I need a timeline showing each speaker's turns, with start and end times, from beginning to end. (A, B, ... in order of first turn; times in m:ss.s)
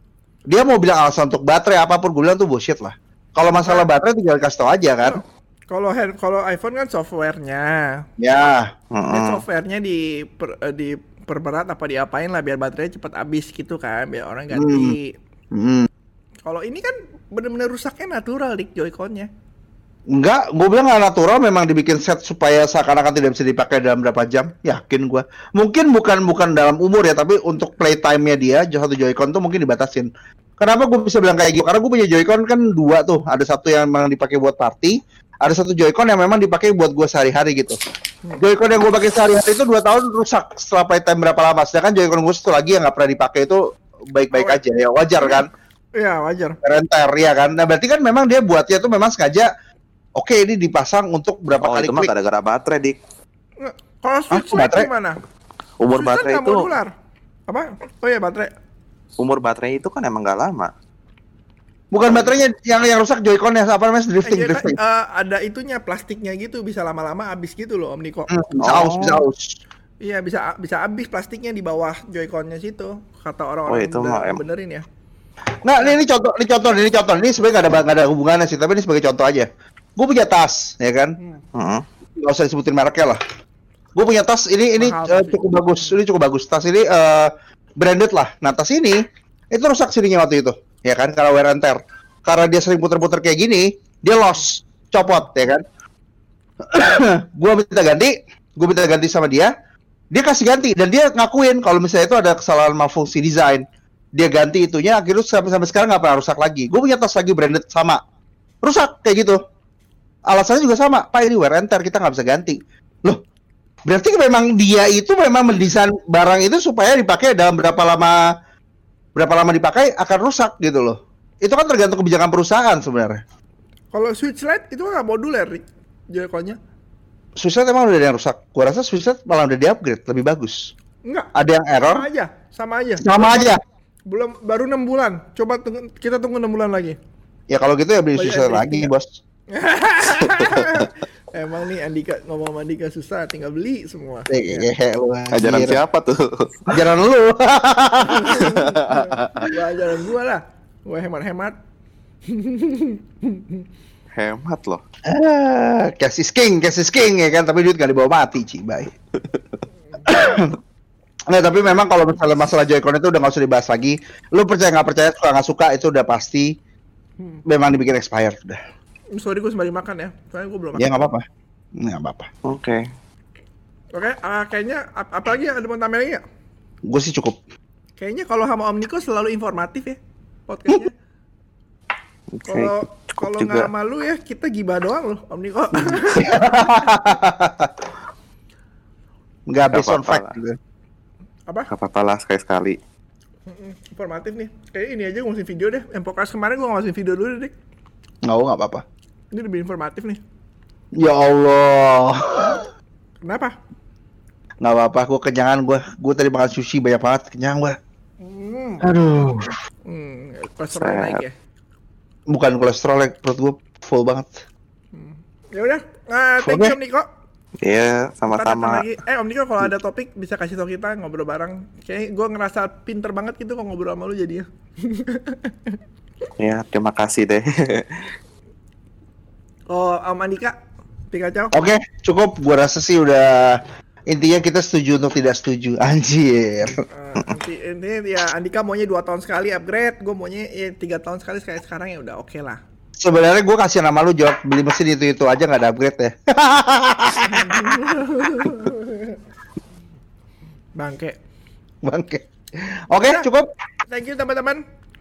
0:00.5-0:05.2 A
0:03.5-0:03.9 B
0:05.0-0:08.0 B
0:08.2-0:08.7 A
0:08.9-0:09.4 C
0:09.1-0:15.1 B
0:14.5-0:15.0 A
0:15.5-0:15.9 A
0:16.4-0:19.3 B
0:20.1-0:30.1 A
0:30.6-0:37.8 A
0:38.4-0:43.6 A
0:44.1-0:45.5 A
0:44.3-0:44.6 B
0:46.0-0:46.6 B
0:46.6-0:49.5 A
0:50.2-0:52.1 A
0:51.6-0:53.0 C
0:53.6-0:55.2 B
0:54.3-0:54.9 A
0:55.8-0:56.7 C
0:55.9-0:56.9 B
0:57.5-0:58.5 B
0:59.2-1:00.7 C
1:01.9-1:04.8 A
1:04.2-1:08.3 B
1:08.3-1:09.6 A
1:08.6-1:09.2 C
1:10.0-1:14.8 B
1:13.7-1:14.4 C
1:15.6-1:21.2 A
1:21.5-1:21.8 C
1:22.2-1:23.2 A
1:23.9-1:29.0 A
1:24.8-1:25.4 B
1:29.5-1:35.6 A
1:36.7-1:39.5 A
1:40.1-1:43.6 A
1:44.1-1:48.0 A
1:48.6-1:49.4 A
1:50.3-1:53.2 A
1:53.8-1:58.3 A
1:59.2-2:03.2 A
2:03.9-2:06.6 B
2:07.4-2:10.7 A
2:11.0-2:11.3 B
2:11.3-2:12.1 A
2:11.9-2:13.5 B
2:13.0-2:13.6 A
2:14.1-2:17.0 B
2:17.5-2:19.2 A
2:18.2-2:18.9 B
2:19.5-2:24.6 B
2:24.3-2:25.8 A
2:25.3-2:26.8 C
2:26.7-2:28.6 A
2:28.0-2:31.6 B
2:28.5-2:29.5 C
2:32.3-2:33.6 B
2:34.1-2:34.8 C
2:35.0-2:38.9 A
2:40.0-2:40.6 A
2:41.3-2:46.6 A
2:47.4-2:48.6 A
2:49.1-2:51.1 B
2:50.8-2:51.2 A
2:51.8-2:52.3 A
2:52.4-2:52.9 C
2:53.9-2:56.2 B
2:56.8-2:57.4 A
2:58.0-3:00.9 B
3:02.3-3:03.7 C
3:02.5-3:06.4 B
3:06.1-3:07.7 A
3:09.5-3:10.6 A
3:09.6-3:10.3 C
3:11.7-3:12.8 C
3:13.5-3:17.5 B
3:18.2-3:18.8 A
3:19.3-3:20.2 B
3:20.9-3:22.7 A
3:23.2-3:23.6 B
3:24.6-3:27.8 A
3:28.2-3:28.9 B
3:28.8-3:29.6 A
3:29.8-3:31.3 B
3:30.7-3:31.2 C
3:32.3-3:34.4 A
3:34.9-3:37.1 B
3:36.4-3:36.7 A
3:37.6-3:38.8 C
3:38.3-3:45.8 B
3:46.4-3:48.1 C
3:49.7-3:50.6 B
3:51.1-3:51.5 B
3:51.5-3:56.8 A
3:56.9-4:02.6 B
4:03.0-4:07.8 A
4:07.2-4:09.2 B
4:10.8-4:11.2 B
4:11.8-4:13.5 A
4:13.9-4:14.6 B